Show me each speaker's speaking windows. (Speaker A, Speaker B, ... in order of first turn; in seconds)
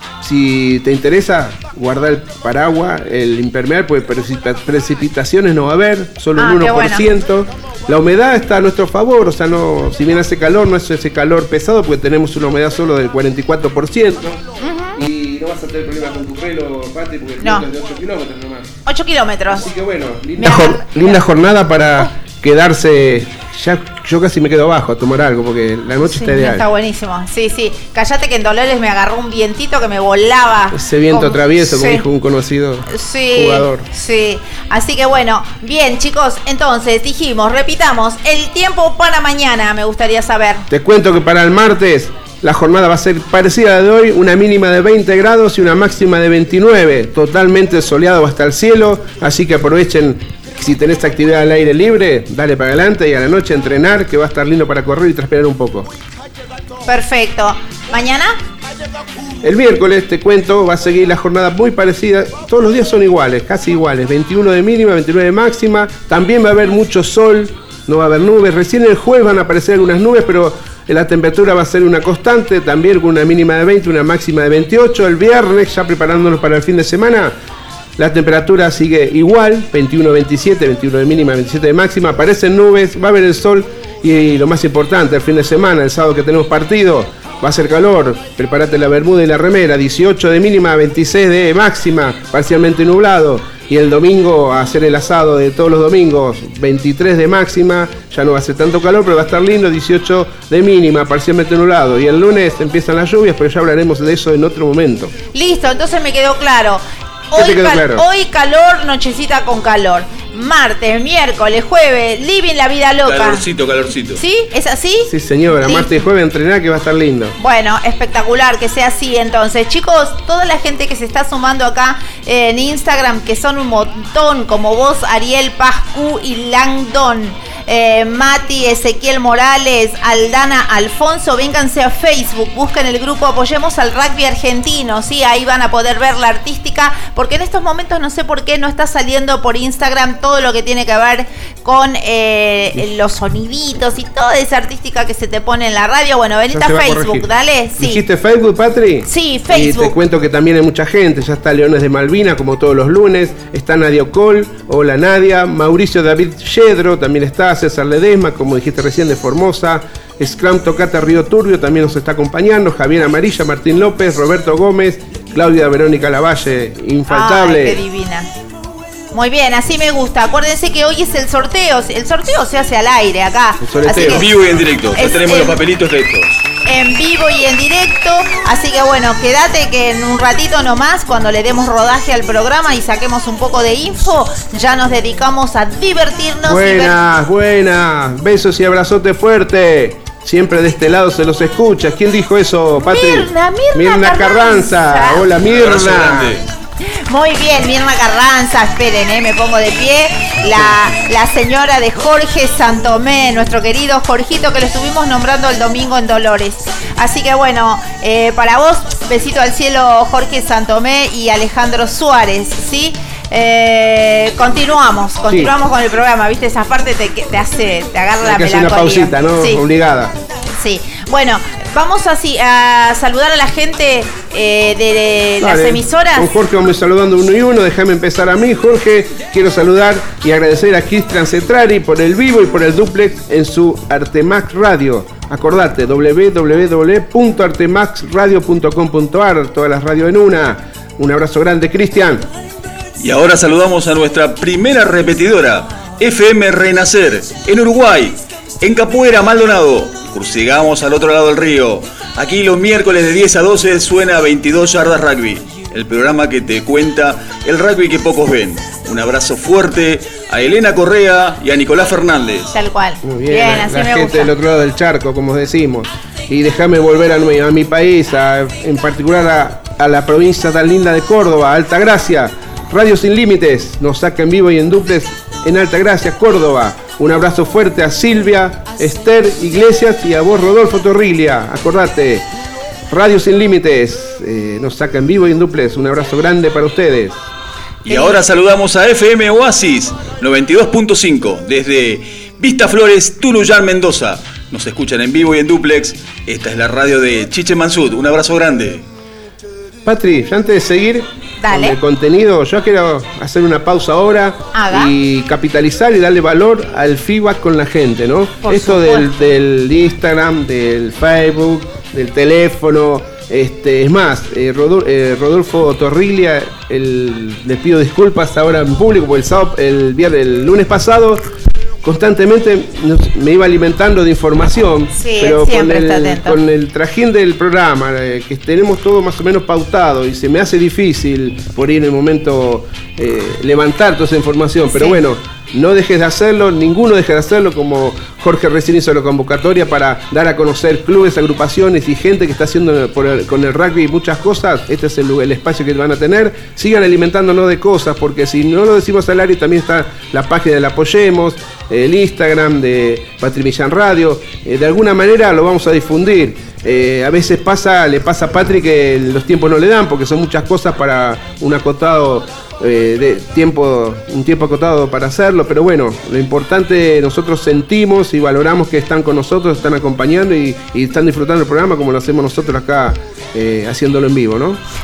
Speaker A: 0.2-18.7, 19.5-26.7, 30.7-33.9, 40.7-55.9, 59.4-77.3, 78.0-105.1, 107.3-108.1, 115.0-117.4, 146.5-147.3, 147.8-167.8, 173.6-174.3, 186.4-196.4, 215.3-215.5, 218.2-220.2, 225.4-242.3, 263.0-282.3, 282.9-287.2, 299.9-321.3, 321.8-374.6
Speaker B: 6.4-7.1, 14.6-15.0, 17.4-17.7, 18.9-19.7, 20.4-21.2, 26.0-32.0, 32.9-40.7, 56.9-58.4, 105.3-113.4, 114.2-116.0, 117.4-148.0, 149.1-149.9, 167.1-168.3, 169.1-174.3, 174.9-175.6, 176.6-187.0, 192.8-195.3, 197.1-219.6, 220.6-226.3, 262.5-264.3, 287.9-288.3, 301.4-301.8, 304.5-304.9, 308.4-309.1, 324.9-326.4, 334.7-335.0
Speaker C: 113.0-114.2, 174.1-176.4, 195.4-196.5, 243.0-262.5, 287.9-298.9